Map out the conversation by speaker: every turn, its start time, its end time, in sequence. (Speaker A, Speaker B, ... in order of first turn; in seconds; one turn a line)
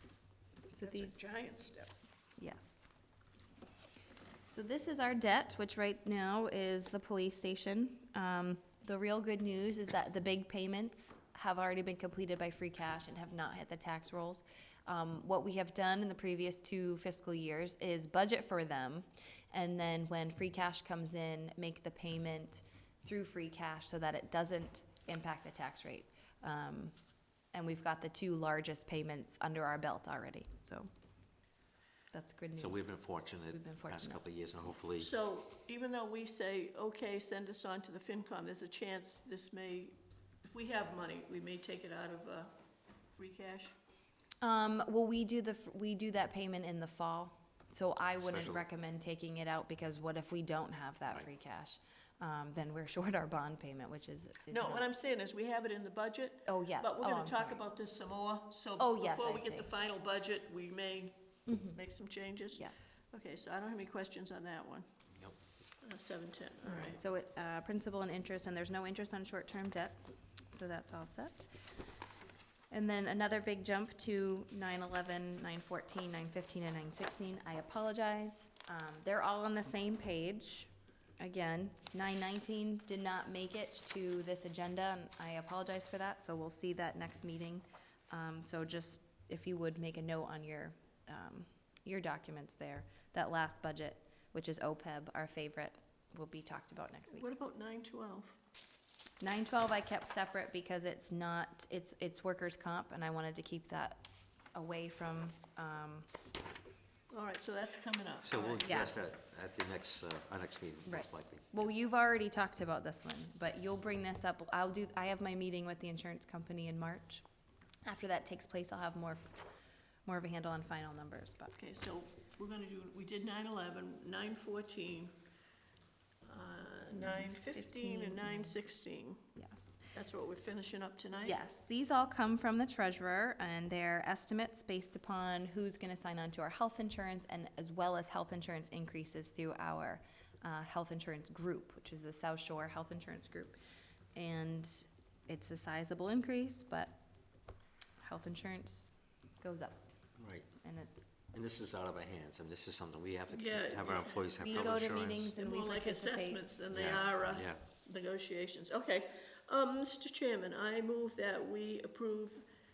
Speaker A: 0.7-1.4
Speaker B: 0.8-1.9
Speaker A: 2.4-2.9
Speaker A: 4.5-26.9
Speaker A: 27.5-30.9
Speaker A: 32.1-34.2
Speaker C: 32.5-35.1
Speaker B: 35.0-42.5
Speaker B: 43.1-43.7
Speaker A: 44.4-54.9
Speaker C: 48.2-48.6
Speaker B: 54.5-61.1
Speaker A: 56.5-57.6
Speaker A: 58.8-59.7
Speaker A: 61.5-61.8
Speaker B: 61.7-64.8
Speaker A: 62.6-63.0
Speaker B: 65.8-67.0
Speaker A: 66.6-70.0
Speaker A: 70.5-71.5
Speaker A: 72.7-97.3
Speaker B: 97.1-98.3
Speaker A: 99.2-106.1
Speaker B: 107.1-108.7
Speaker C: 108.2-111.5
Speaker A: 108.6-109.1
Speaker A: 110.9-117.2
Speaker A: 117.8-119.3
Speaker A: 120.0-121.5
Speaker B: 121.5-125.2
Speaker B: 126.2-129.3
Speaker A: 126.9-128.6
Speaker A: 129.3-129.9
Speaker B: 129.9-131.4
Speaker A: 131.2-143.6
Speaker A: 144.1-147.0
Speaker A: 148.0-149.8
Speaker C: 150.2-150.5
Speaker A: 150.6-150.9
Speaker C: 151.3-155.3
Speaker B: 153.3-154.3
Speaker A: 154.4-157.0
Speaker B: 155.3-162.4
Speaker C: 156.7-157.6